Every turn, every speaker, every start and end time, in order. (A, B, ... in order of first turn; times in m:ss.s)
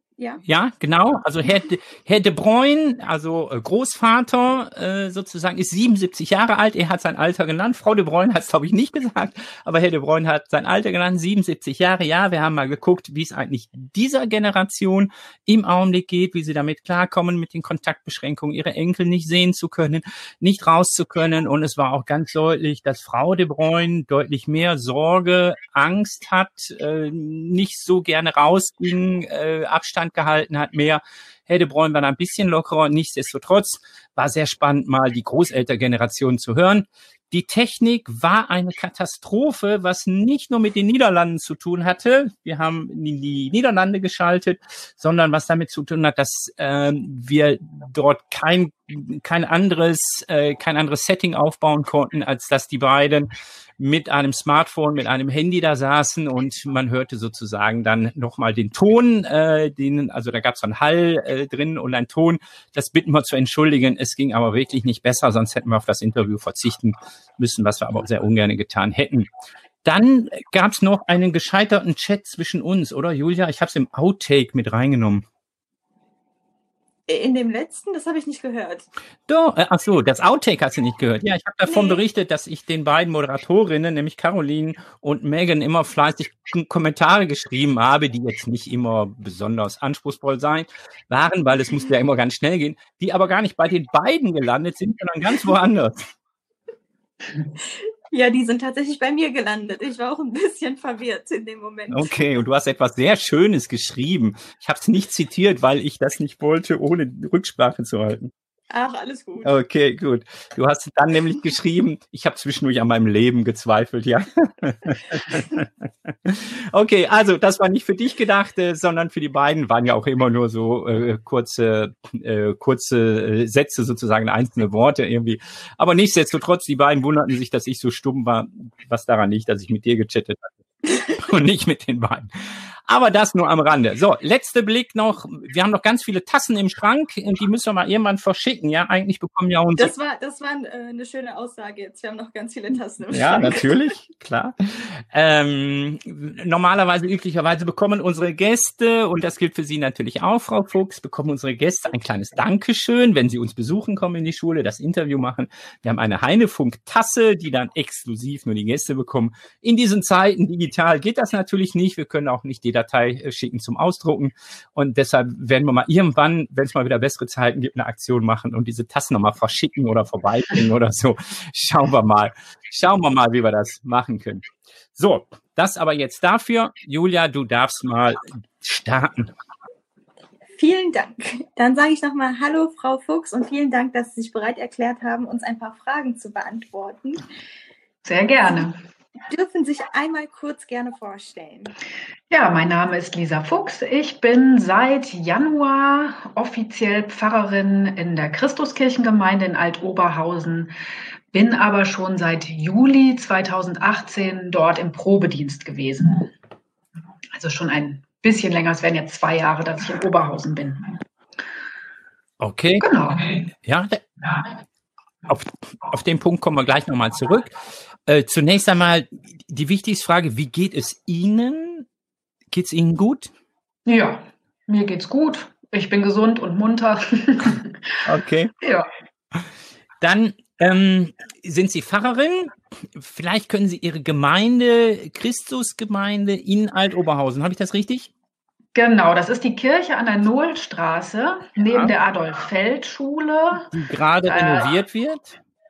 0:00.4-1:09.3 A
1:09.8-1:15.2 A
1:17.1-1:18.9 B
1:19.3-1:36.1 A
1:21.7-1:22.0 B
1:37.6-1:42.2 B
1:41.9-1:48.3 A
1:48.7-1:49.5 B
1:49.4-2:19.9 A
2:19.8-2:23.7 B
2:23.1-2:59.3 A
3:00.6-3:07.2 B
3:08.0-3:08.8 C
3:09.3-3:11.7 B
3:12.3-3:20.7 C
3:21.3-3:26.3 C
3:27.4-3:31.0 C
3:32.4-3:32.9 A
3:32.8-3:33.4 C
3:33.6-3:34.1 A
3:35.3-3:41.9 A
3:42.5-3:43.3 A
3:43.9-3:48.0 C
3:48.0-3:48.5 A
3:48.6-3:48.9 C
3:50.0-3:58.1 A
3:58.8-4:03.7 C
4:03.7-4:05.3 A
4:04.3-4:04.7 C